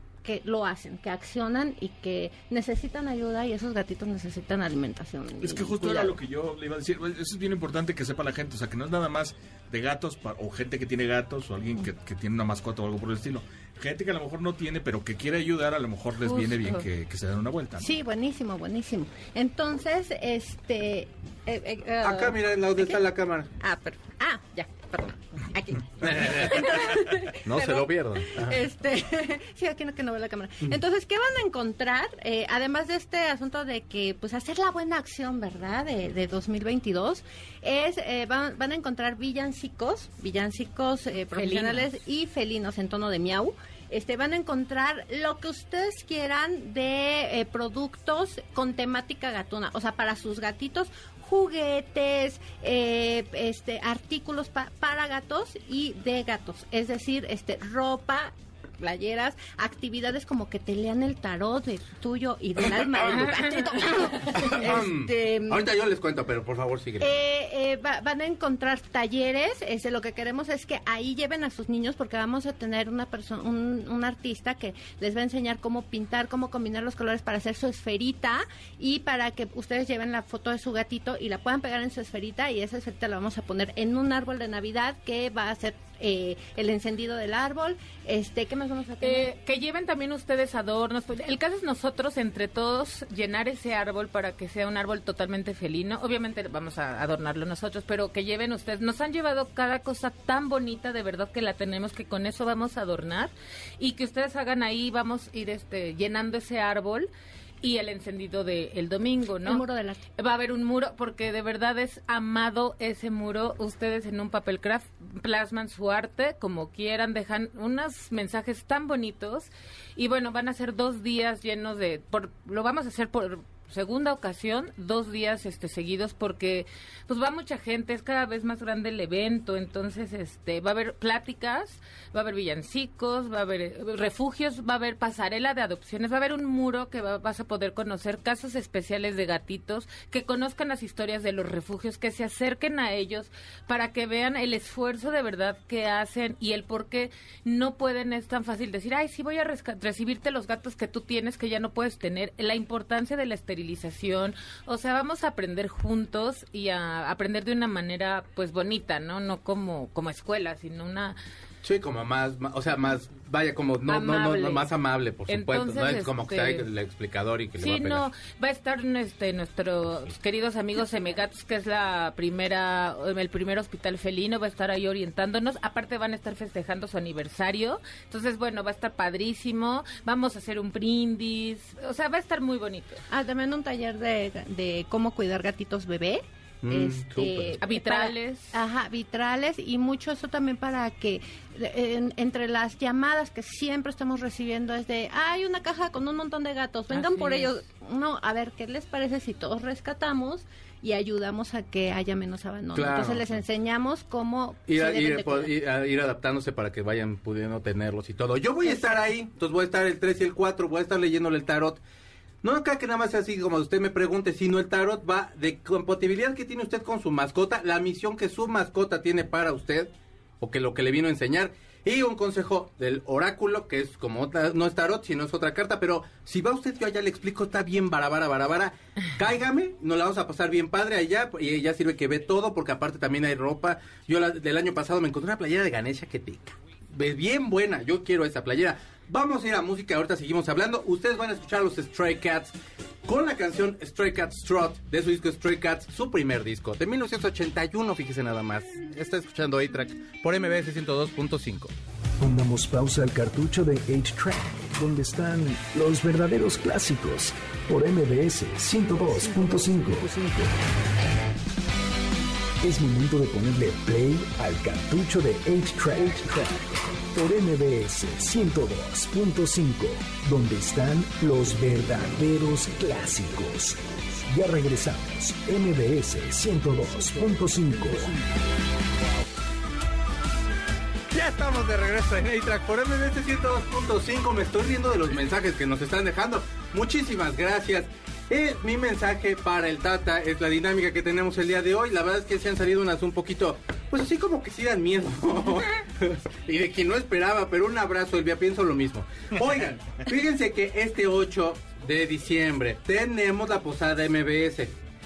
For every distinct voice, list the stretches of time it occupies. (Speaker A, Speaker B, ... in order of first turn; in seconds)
Speaker A: 0.2-6.2, 16.2-16.7, 17.8-23.0, 23.6-65.7, 67.0-89.3, 109.4-110.0, 183.1-205.5, 208.7-208.9
Speaker B: 5.4-17.9, 299.6-299.9
Speaker C: 22.0-23.5, 26.0-28.6, 64.3-67.2, 161.6-168.1, 186.6-187.6, 202.8-203.3, 204.7-211.8, 212.4-219.9, 220.4-242.5, 243.1-251.7, 281.1-304.7
Speaker D: 41.4-41.9, 89.0-107.1, 107.6-109.7, 110.2-161.2, 163.9-164.7, 165.3-166.7, 167.6-183.0, 187.6-188.6, 196.9-197.5
Speaker E: 252.2-260.6, 262.6-278.2